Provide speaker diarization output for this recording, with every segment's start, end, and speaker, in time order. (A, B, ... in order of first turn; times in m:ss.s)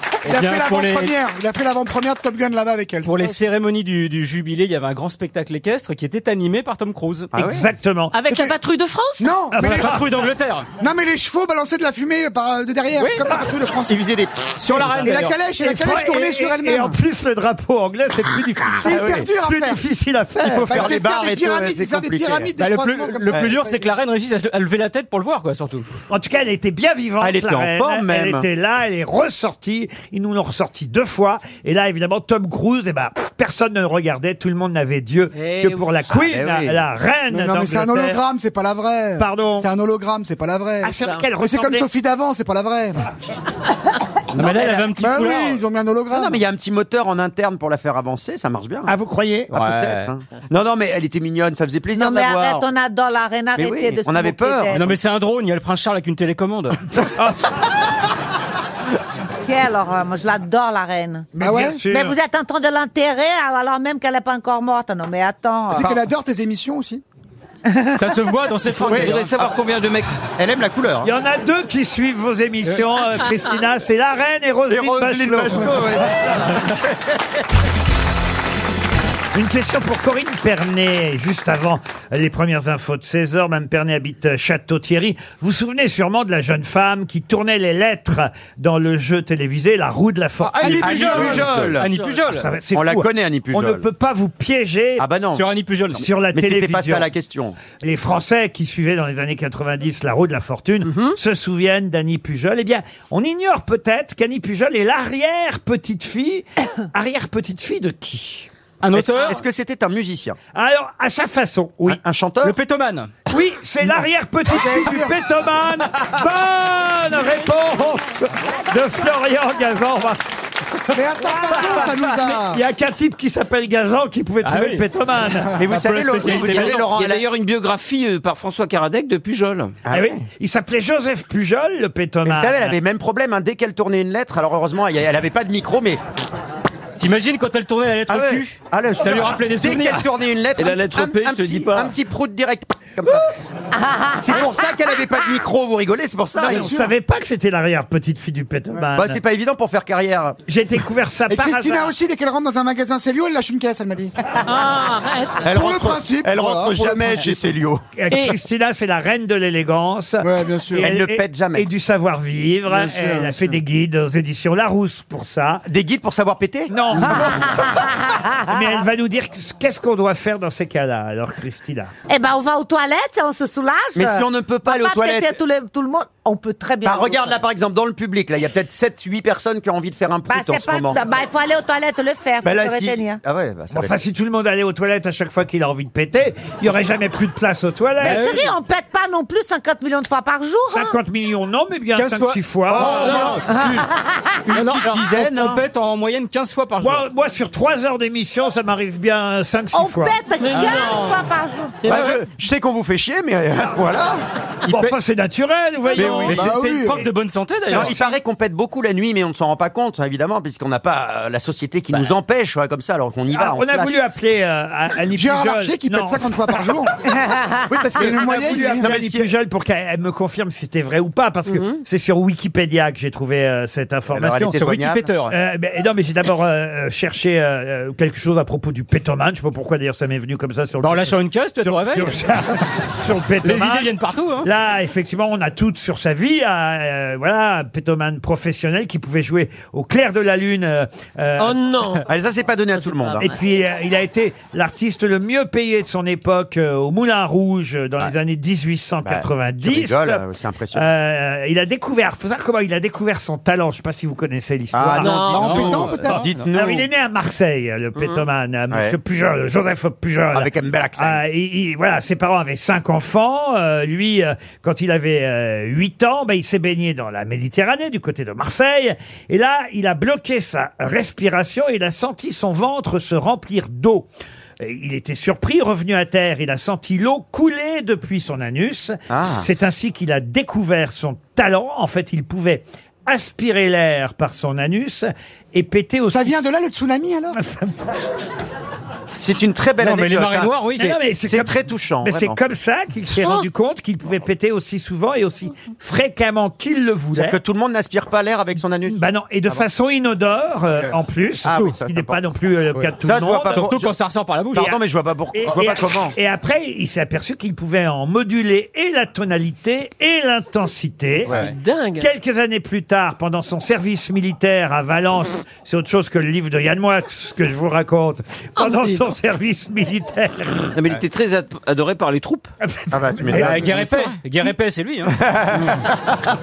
0:00.2-0:01.1 A
0:00.2-0:03.4 B
0:03.0-0:07.3 A
0:07.3-0:07.7 C
0:07.4-0:08.2 D
0:08.1-0:09.3 E
0:08.3-0:08.6 B
0:09.2-0:10.0 B
0:09.5-0:10.0 D
0:09.6-0:10.7 A
0:10.8-0:14.0 B
0:13.0-0:13.3 A
0:13.9-0:14.8 C
0:14.6-0:15.4 A
0:14.6-0:17.0 B
0:15.6-0:20.8 D
0:18.8-0:19.8 B
0:18.8-0:19.3 C
0:20.4-0:22.5 C
0:20.5-0:23.9 B
0:22.6-0:25.9 A
0:23.3-0:23.6 C
0:26.1-0:38.2 D
0:27.2-0:28.5 C
0:35.3-0:36.2 E
0:36.1-0:36.8 C
0:37.3-0:43.1 B
0:39.2-0:39.7 D
0:40.8-0:41.9 D
0:44.3-0:44.9 C
0:44.3-0:45.6 A
0:44.9-0:46.4 B
0:46.1-0:48.9 C
0:48.9-0:49.5 D
0:49.5-0:52.7 C
0:49.5-0:50.1 A
0:52.0-0:54.9 F
0:53.6-0:54.9 C
0:54.7-0:56.8 A
0:57.0-0:57.5 D
0:59.4-1:01.3 F
1:01.4-1:02.2 D
1:01.4-1:01.9 B
1:01.9-1:06.0 F
1:05.7-1:07.0 B
1:07.9-1:09.3 A
1:08.9-1:09.5 C
1:08.9-1:10.1 G
1:10.4-1:11.1 C
1:11.0-1:16.2 D
1:14.7-1:16.7 C
1:19.3-1:31.4 D
1:30.4-1:32.5 A
1:30.8-1:31.9 C
1:30.9-1:32.2 E
1:32.3-1:35.0 D
1:32.7-1:33.9 C
1:35.0-1:35.4 C
1:35.3-1:36.0 A
1:36.0-1:37.1 D
1:36.3-1:37.6 C
1:37.7-1:48.5 D
1:40.8-1:41.2 E
1:48.8-1:49.4 A
1:48.9-1:50.4 C
1:50.5-1:52.0 D
1:51.9-1:52.5 C
1:52.4-1:53.1 A
1:53.3-2:00.2 D
1:54.5-1:55.2 B
2:00.9-2:02.6 B
2:01.3-2:05.6 D
2:04.4-2:04.8 A
2:05.6-2:07.2 C
2:05.6-2:06.9 A
2:06.3-2:09.8 G
2:09.9-2:10.2 C
2:09.9-2:12.7 D
2:12.2-2:16.0 C
2:17.0-2:20.1 A
2:18.1-2:23.3 C
2:20.6-2:21.9 G
2:23.7-2:25.0 F
2:24.2-2:26.7 C
2:26.4-2:26.9 B
2:26.5-2:29.2 D
2:28.9-2:30.4 C
2:30.5-2:31.9 D
2:31.3-2:34.1 B
2:34.4-2:35.5 E
2:35.4-2:37.8 C
2:35.5-2:37.4 B
2:38.0-2:45.6 D
2:38.1-2:38.4 E
2:40.2-2:41.0 B
2:40.8-2:41.7 C
2:42.7-2:43.6 B
2:45.7-2:46.7 C
2:46.7-2:47.6 D
2:47.0-2:48.8 F
2:48.5-2:51.9 D
2:52.1-2:57.4 F
2:54.0-2:55.4 C
2:56.8-3:01.0 C
3:00.3-3:03.2 F
3:02.4-3:04.0 C
3:03.7-3:08.4 D
3:08.0-3:08.5 A
3:08.0-3:11.0 F
3:10.7-3:13.4 D
3:12.0-3:13.4 A
3:12.7-3:13.9 C
3:13.5-3:14.4 F
3:14.4-3:15.6 C
3:14.5-3:17.0 A
3:16.8-3:20.2 D
3:19.7-3:21.8 F
3:20.4-3:21.2 E
3:21.8-3:22.1 E
3:21.8-3:24.2 C
3:21.9-3:22.2 A
3:24.6-3:26.8 D
3:24.7-3:25.0 A
3:26.0-3:26.4 C
3:26.0-3:27.1 B
3:26.0-3:28.0 A
3:27.7-3:34.0 C
3:33.3-3:36.7 D
3:35.1-3:37.0 B
3:37.7-3:39.3 C
3:38.0-3:38.9 B
3:38.0-3:44.6 D
3:44.1-3:45.1 C
3:44.6-3:45.4 A
3:45.3-3:53.9 D
3:50.8-3:52.2 A
3:53.4-3:54.5 A
3:54.4-4:01.6 D
4:01.4-4:02.1 E
4:02.1-4:03.3 C
4:02.8-4:03.4 E
4:03.2-4:10.2 D
4:09.0-4:10.9 C
4:10.7-4:34.1 D
4:14.7-4:16.9 C
4:15.0-4:15.4 E
4:15.2-4:16.2 B
4:15.4-4:16.4 A
4:18.0-4:18.2 E
4:20.3-4:21.2 C
4:34.6-4:46.4 D
4:39.1-4:39.5 C
4:46.1-4:47.4 B
4:47.3-4:48.0 D
4:49.2-4:50.6 C
4:49.8-4:51.0 A
4:50.8-4:57.4 D
4:51.2-4:52.4 C
4:57.1-4:59.6 C
4:58.9-5:03.7 D
5:01.4-5:02.2 C
5:02.7-5:04.8 A
5:03.0-5:03.9 C
5:04.5-5:06.1 C
5:05.3-5:11.3 D
5:11.3-5:12.1 E
5:12.0-5:20.7 D
5:18.6-5:19.1 E
5:20.7-5:22.5 G
5:22.6-5:23.6 D
5:22.9-5:23.8 C
5:23.3-5:25.2 A
5:25.3-5:25.7 C